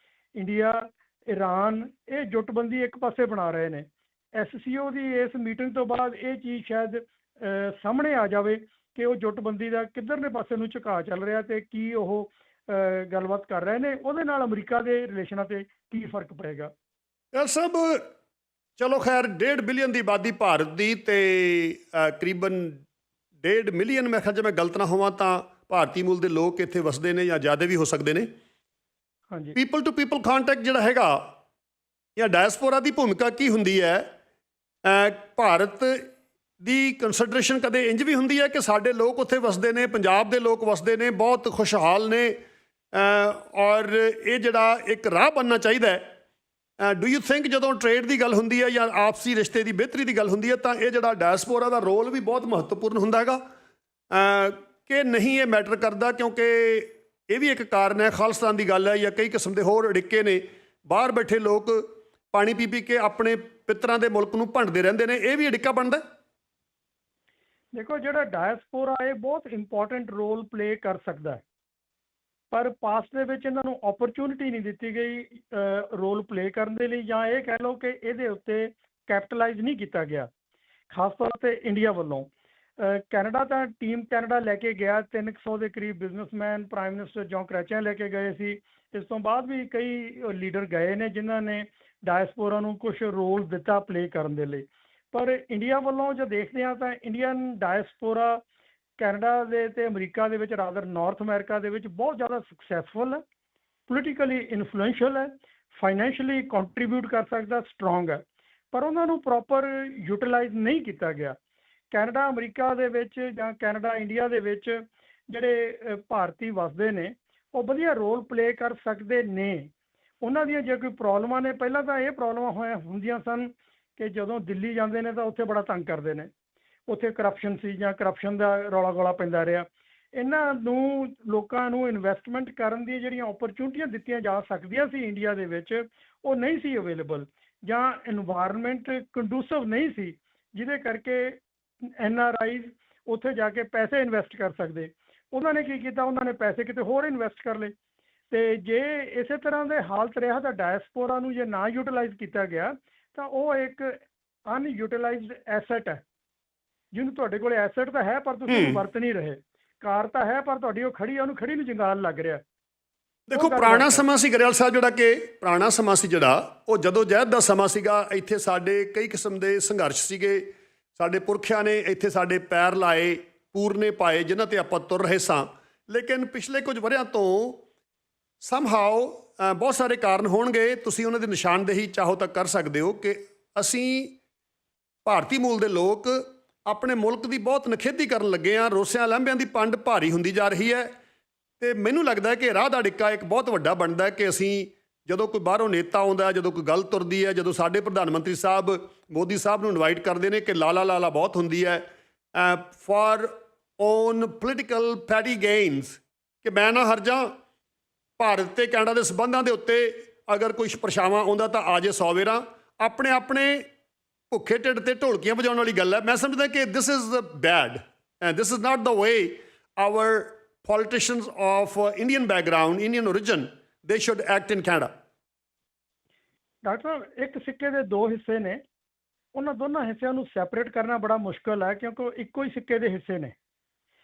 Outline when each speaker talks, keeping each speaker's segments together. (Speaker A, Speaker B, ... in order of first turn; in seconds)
Speaker A: 0.3-16.7, 29.3-29.6, 67.7-71.4, 72.5-80.3, 80.9-98.4, 99.0-103.2, 103.9-108.2, 108.7-111.4, 111.9-119.7, 120.2-126.3, 126.9-147.7, 148.3-156.0, 156.9-162.4, 163.3-164.0, 226.6-228.6, 229.3-233.3
Speaker B: 17.3-18.1, 18.8-22.8, 23.4-28.3, 29.5-31.3, 32.2-34.1, 34.8-36.1, 36.6-42.4, 42.9-46.1, 46.8-53.4, 54.1-66.0, 158.5-158.8, 163.3-177.6, 178.4-184.2, 185.0-190.9, 191.6-207.4, 208.2-213.7, 214.3-224.9